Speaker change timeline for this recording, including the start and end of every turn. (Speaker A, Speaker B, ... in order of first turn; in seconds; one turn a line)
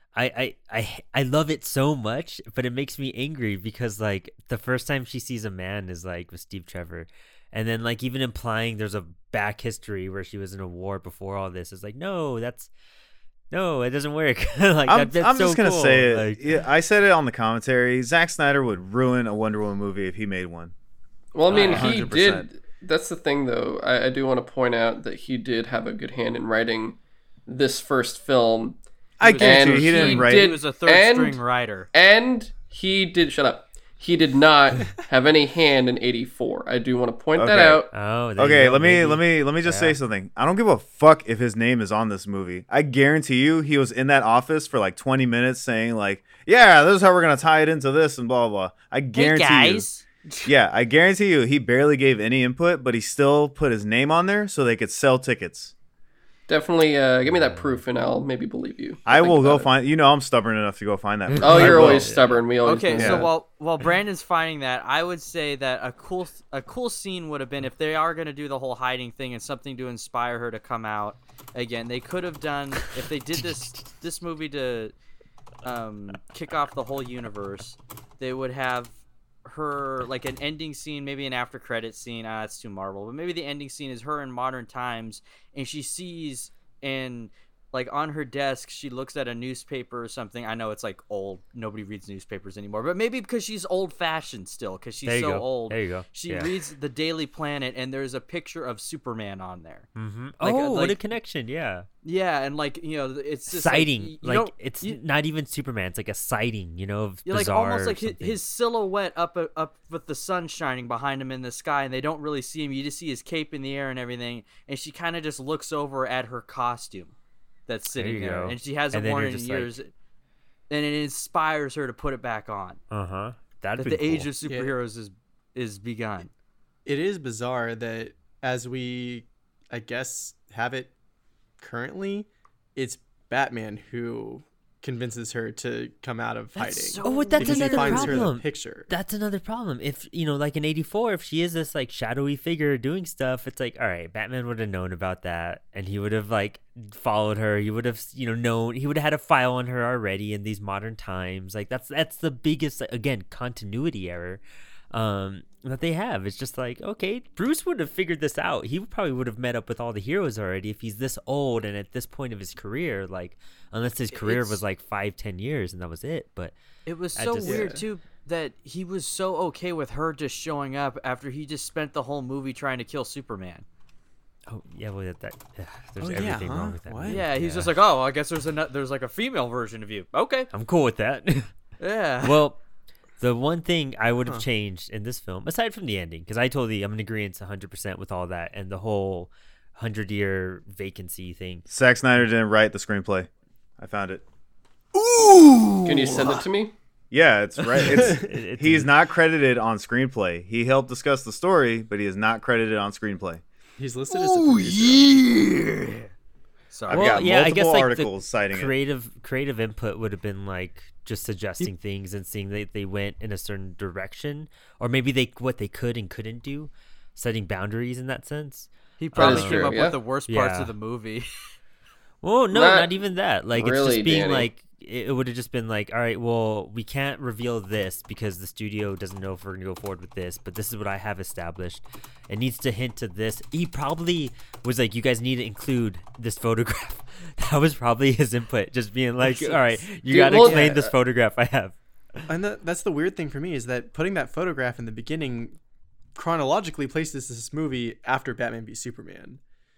Speaker A: 0.1-12.7
Speaker A: 13.5-16.4
Speaker B: 14.9-20.7
Speaker C: 21.3-28.8
Speaker B: 21.5-22.5
Speaker A: 21.5-22.0
Speaker B: 29.2-30.5
Speaker D: 29.2-31.9
Speaker C: 29.4-31.4
Speaker C: 31.9-37.9
Speaker B: 37.4-37.8
Speaker A: 37.9-40.0
Speaker B: 38.4-49.9
Speaker D: 49.1-50.5
Speaker B: 50.4-55.7
Speaker C: 56.5-59.7
Speaker A: 57.3-57.8
Speaker B: 59.1-62.1
Speaker A: 61.3-62.3
Speaker C: 61.4-63.3
Speaker D: 62.6-74.9
Speaker B: 63.0-63.3
Speaker D: 75.6-99.9
Speaker A: 95.0-96.5
Speaker A: 100.0-101.9
Speaker D: 100.4-101.0
Speaker D: 102.0-105.0
Speaker A: 103.5-108.4
Speaker D: 107.2-117.1
Speaker D: 117.7-119.9
Speaker A: 117.9-119.8
Speaker D: 120.7-122.8
Speaker A: 122.9-124.3
Speaker D: 123.8-126.3
Speaker E: 124.5-124.7
Speaker E: 126.8-130.9
Speaker E: 131.6-138.9
Speaker D: 136.6-138.3
Speaker A: 137.0-154.4
Speaker A: 154.9-166.5
Speaker D: 164.1-164.6
Speaker D: 166.8-173.7
Speaker A: 167.2-167.8
Speaker E: 167.4-167.8
Speaker A: 174.5-177.7
Speaker E: 176.0-177.2
Speaker D: 177.1-180.5
Speaker A: 180.5-181.5
Speaker D: 181.8-182.4
Speaker A: 182.2-182.6
Speaker A: 183.2-191.7
Speaker B: 191.7-194.2
Speaker E: 194.9-196.4
Speaker C: 195.8-196.7
Speaker B: 197.1-203.4
Speaker A: 197.9-198.9
Speaker E: 203.8-205.3
Speaker D: 204.1-206.1
Speaker D: 206.7-207.2
Speaker B: 206.9-208.7
Speaker A: 206.9-220.7
Speaker D: 219.0-221.3
Speaker C: 219.2-220.0
Speaker A: 222.2-242.3
Speaker C: 222.5-222.9
Speaker C: 223.5-224.5
Speaker C: 240.1-240.9
Speaker E: 240.3-240.8
Speaker E: 242.3-245.6
Speaker E: 246.1-249.4